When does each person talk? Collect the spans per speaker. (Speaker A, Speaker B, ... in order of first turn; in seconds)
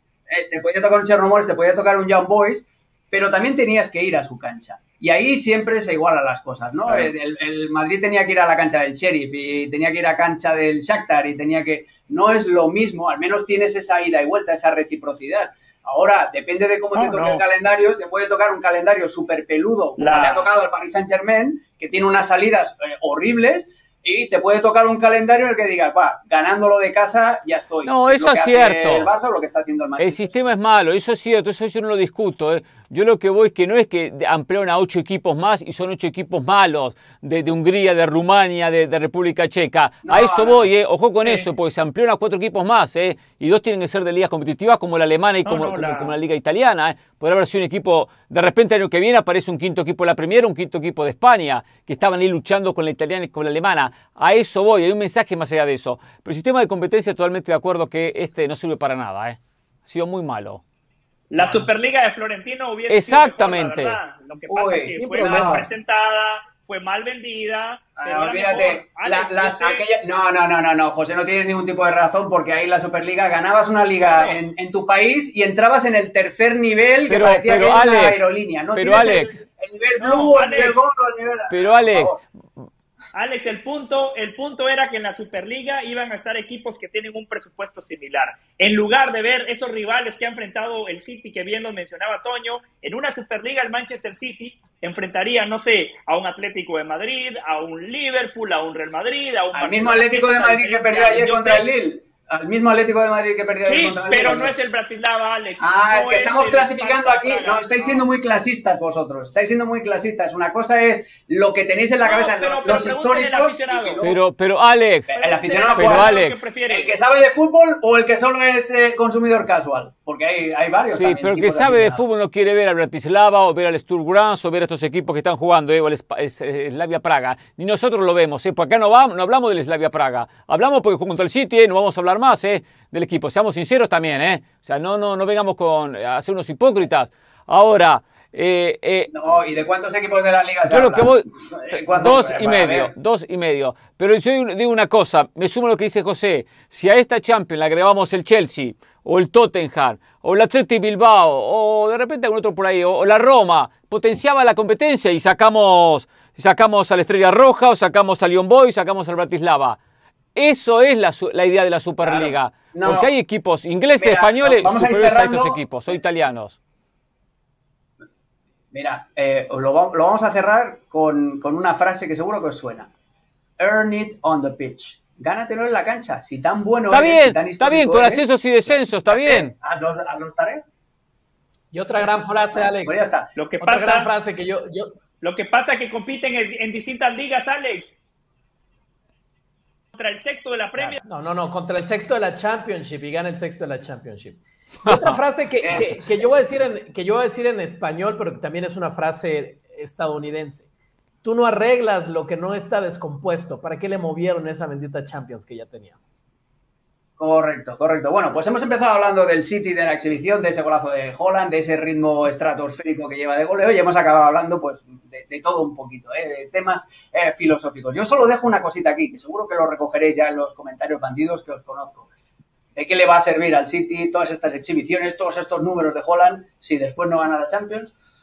Speaker A: 0.3-30.5, 40.0-40.7, 61.4-61.7, 64.5-65.7, 68.0-82.2, 99.5-104.5, 105.6-114.2, 115.1-122.0, 139.1-142.9, 162.0-163.1, 164.0-165.6, 168.7-172.9, 173.6-180.6, 182.5-183.3, 195.6-196.3, 207.2-222.1, 222.8-227.9
Speaker B: 16.9-17.4, 20.0-20.5, 45.5-46.1, 61.3-69.8, 74.0-74.4, 80.0-80.8, 83.1-101.7, 103.7-108.1, 112.0-114.0, 115.1-117.0, 183.3-184.1, 185.2-187.9, 189.9-191.0
Speaker C: 27.9-29.1, 30.0-60.6, 62.9-64.0, 77.1-79.4, 81.5-82.7, 114.0-115.2, 115.7-116.5, 120.8-139.1, 140.7-159.8, 160.3-166.6, 176.9-179.5, 194.8-195.2
Speaker D: 65.0-65.7, 181.7-183.0, 183.6-184.9, 190.8-200.7, 201.2-206.2